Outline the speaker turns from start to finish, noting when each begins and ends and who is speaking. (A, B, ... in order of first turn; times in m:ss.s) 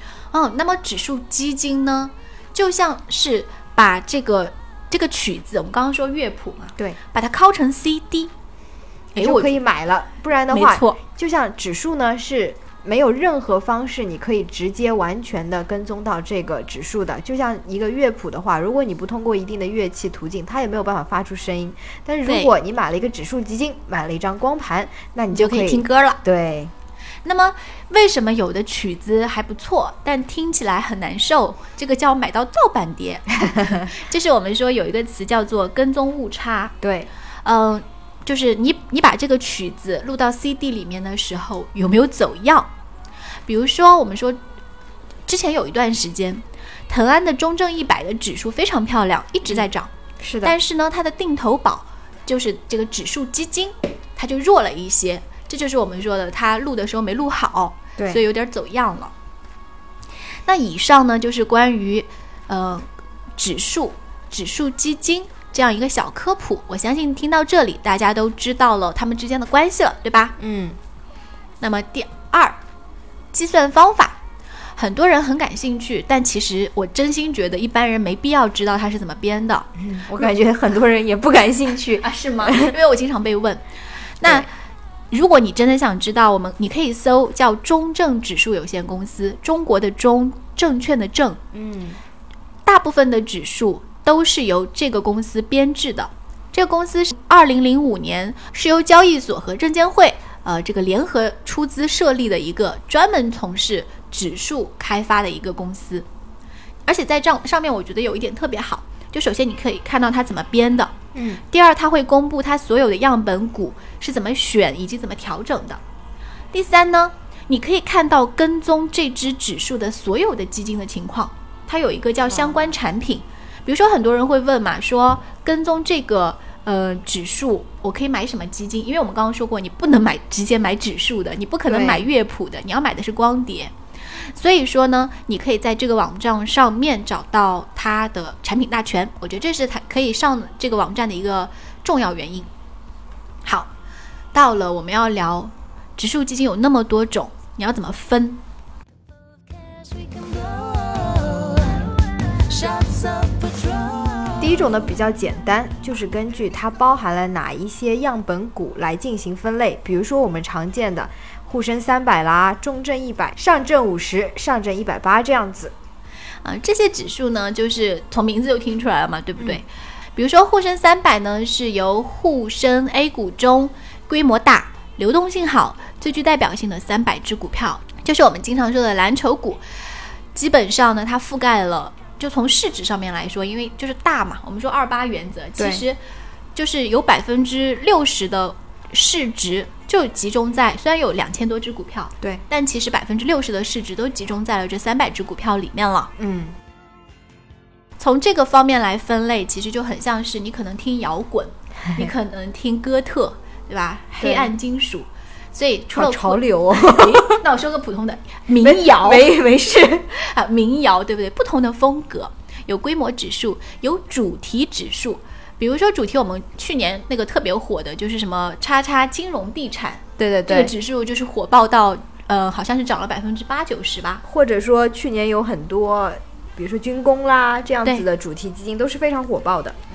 0:00.3-0:08.3 A
0:09.1-0:09.6 A
0:09.2-0:26.7 B
0:10.5-0:11.0 A
0:22.2-0:22.5 A
0:25.3-0:26.2 A
0:27.2-0:36.8 A
0:36.8-0:37.1 B
0:37.4-0:42.7 A
0:43.4-0:44.4 A
0:45.3-0:49.9 A
0:50.2-0:50.6 B
0:50.4-0:59.1 A
1:00.4-1:10.3 A
1:10.4-1:10.8 B
1:11.6-1:12.6 A
1:13.3-1:14.2 A
1:14.8-1:19.7 A
1:19.8-1:22.7 B
1:22.0-1:23.6 A
1:24.2-1:24.5 A
1:24.2-1:24.5 B
1:25.1-1:31.4 A
1:31.5-1:32.0 B
1:32.6-1:46.1 A
1:46.8-1:50.9 A
1:51.1-1:51.4 B
1:51.5-1:55.8 A
1:56.5-2:13.7 A
2:11.7-2:12.1 B
2:14.3-2:22.5 A
2:23.4-2:23.7 A
2:24.3-2:28.4 A
2:29.7-2:31.8 C
2:32.5-2:34.4 C
2:34.4-2:45.7 B
2:46.4-2:59.6 A
3:00.3-3:06.0 A
3:05.6-3:05.8 B
3:06.5-3:16.1 A
3:16.2-3:16.6 B
3:18.0-3:29.4 A
3:24.2-3:24.5 B
3:25.9-3:27.4 B
3:28.6-3:30.1 B
3:30.1-3:44.2 A
3:40.2-3:40.7 B
3:44.2-3:49.8 B